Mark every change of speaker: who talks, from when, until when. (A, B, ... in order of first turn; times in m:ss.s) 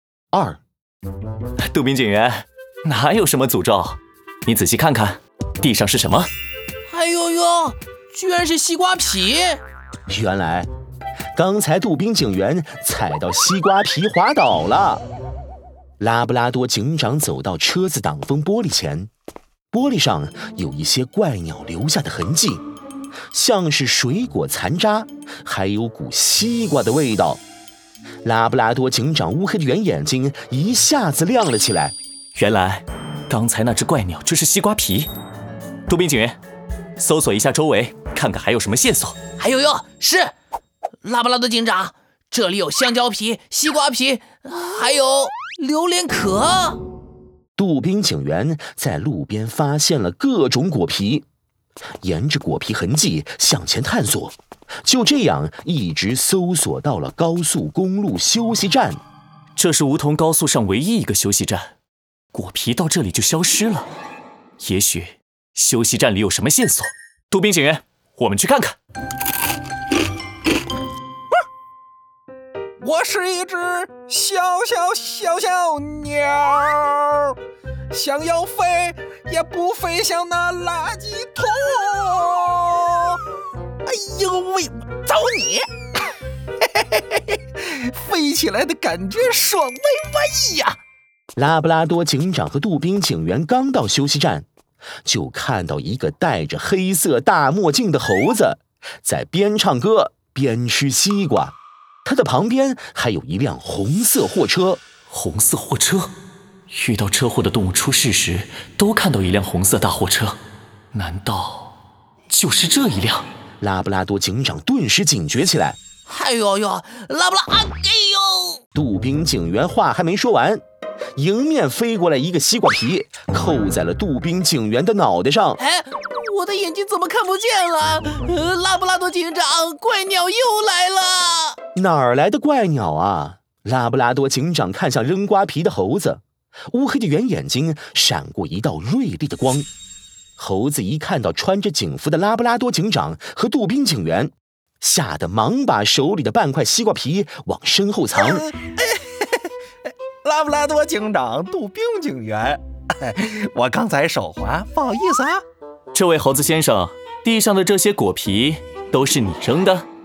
0:00.3-0:00.6 A
0:01.6-0:06.3 B
0:06.9-0:09.6 C
0:10.1-0:10.7 A
0:11.3-0:15.0 A
0:16.0-0:19.1 A
0:19.7-0:22.6 A
0:23.3-0:27.4 A
0:28.2-0:32.0 A
0:32.4-0:35.1 B
0:35.9-0:36.4 B
0:37.0-0:39.2 B
0:39.3-0:40.3 C
0:41.0-0:46.8 C
0:47.6-0:51.2 A
0:52.0-0:59.0 A
0:59.6-1:01.7 B
1:02.3-1:03.9 B
1:04.6-1:08.8 B
1:12.8-1:17.4 D
1:17.9-1:23.2 D
1:23.8-1:25.7 D
1:26.6-1:30.8 D
1:31.4-1:34.4 A
1:35.0-1:44.8 A
1:45.1-1:46.1 B
1:46.7-1:50.4 B
1:50.9-1:51.7 B
1:52.3-1:53.2 B
1:53.6-1:55.8 A
1:56.1-1:58.6 C
1:58.7-2:00.6 A
2:01.2-2:05.6 A
2:05.6-2:11.6 C
2:11.8-2:19.7 A
2:20.4-2:28.4 A
2:28.2-2:29.5 D
2:30.2-2:35.4 D
2:35.9-2:39.9 B